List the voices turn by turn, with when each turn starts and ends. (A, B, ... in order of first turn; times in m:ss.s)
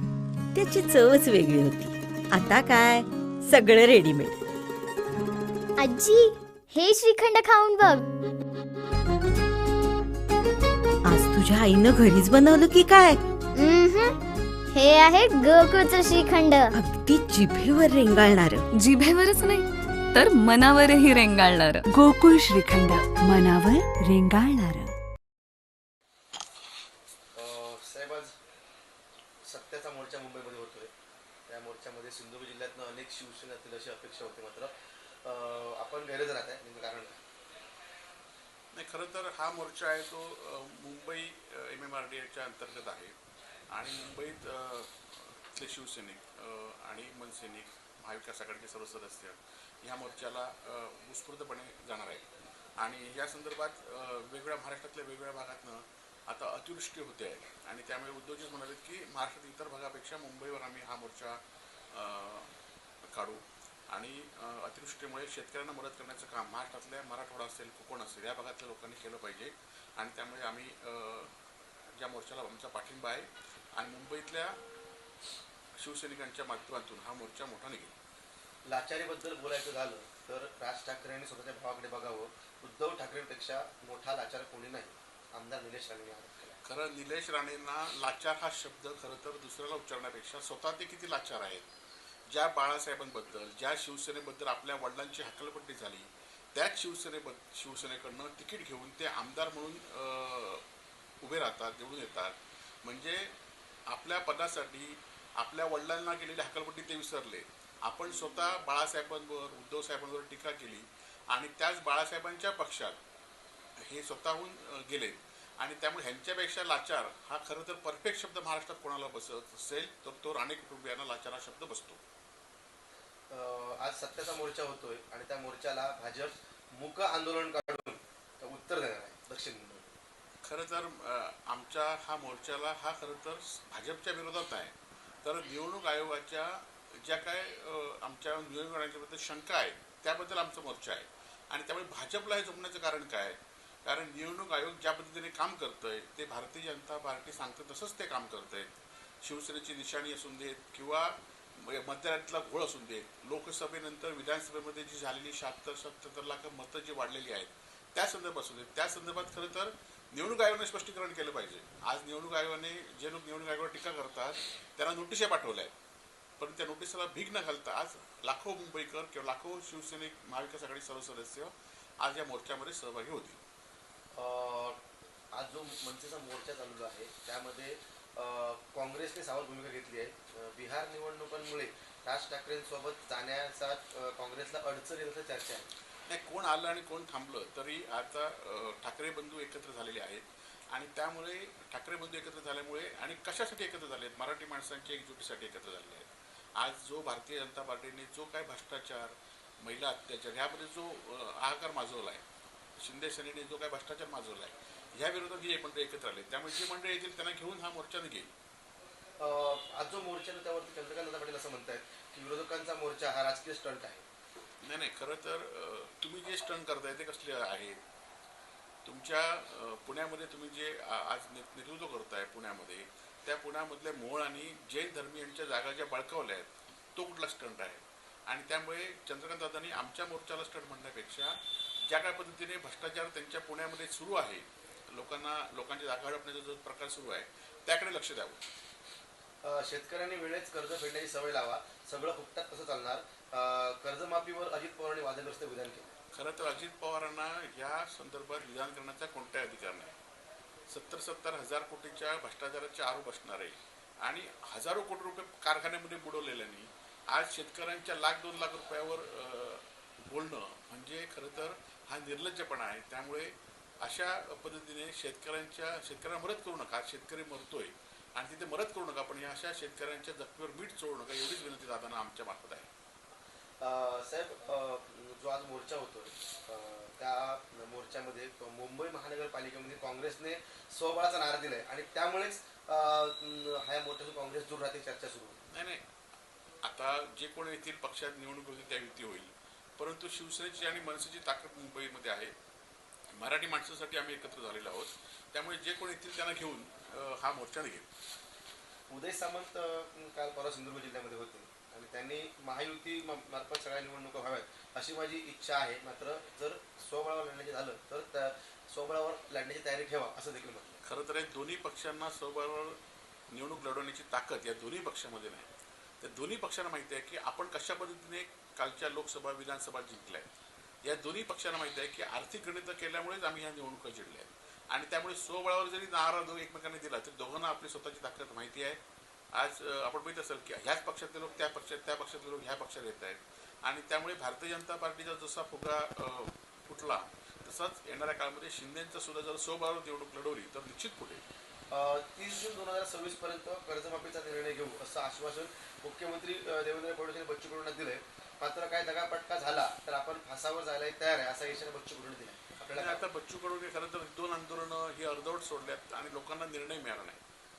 0:00.5-0:04.4 A
0:05.8-0:08.0 B
0:11.1-0:13.2 A
0:13.6-0:14.1 B
0:14.7-0:16.7 B
0:16.8-0:18.6 A
0:18.8-0:21.8 C
0:21.9-0:24.9 D
0:27.3-0:28.3 E
0:29.5-0:30.9 E
0:31.5-0:34.7 E
0:35.2-0:37.2 E
0:38.7-0:43.2 F
0:43.7-0:52.2 F
0:52.8-1:01.4 F
1:01.9-1:02.5 F
1:03.1-1:11.3 F
1:11.9-1:14.6 F
1:15.8-1:17.9 F
1:18.6-1:26.5 E
1:26.6-1:31.7 F
1:32.3-1:40.6 F
1:41.2-1:43.3 F
1:43.9-1:53.0 F
1:53.8-2:02.0 F
2:03.3-2:09.9 E
2:10.4-2:28.7 F
2:29.2-2:45.7 F
2:46.4-2:53.4 F
2:54.1-2:54.8 E
2:55.3-3:05.7 E
3:06.1-3:22.2 F
3:22.8-3:28.3 F
3:29.2-3:34.0 E
3:34.6-3:37.8 F
3:38.8-3:58.4 F
3:59.4-4:05.9 E
4:06.1-4:10.0 F
4:10.7-4:32.7 F
4:33.6-4:45.4 E
4:45.5-4:45.8 F
4:46.6-4:52.3 F
4:53.2-4:57.9 F
4:58.9-5:10.8 E
5:10.8-5:12.8 F
5:13.3-5:15.5 F
5:16.0-5:20.3 F
5:20.8-5:28.8 F
5:29.3-5:41.2 F
5:41.7-5:53.0 E
5:52.8-5:57.2 F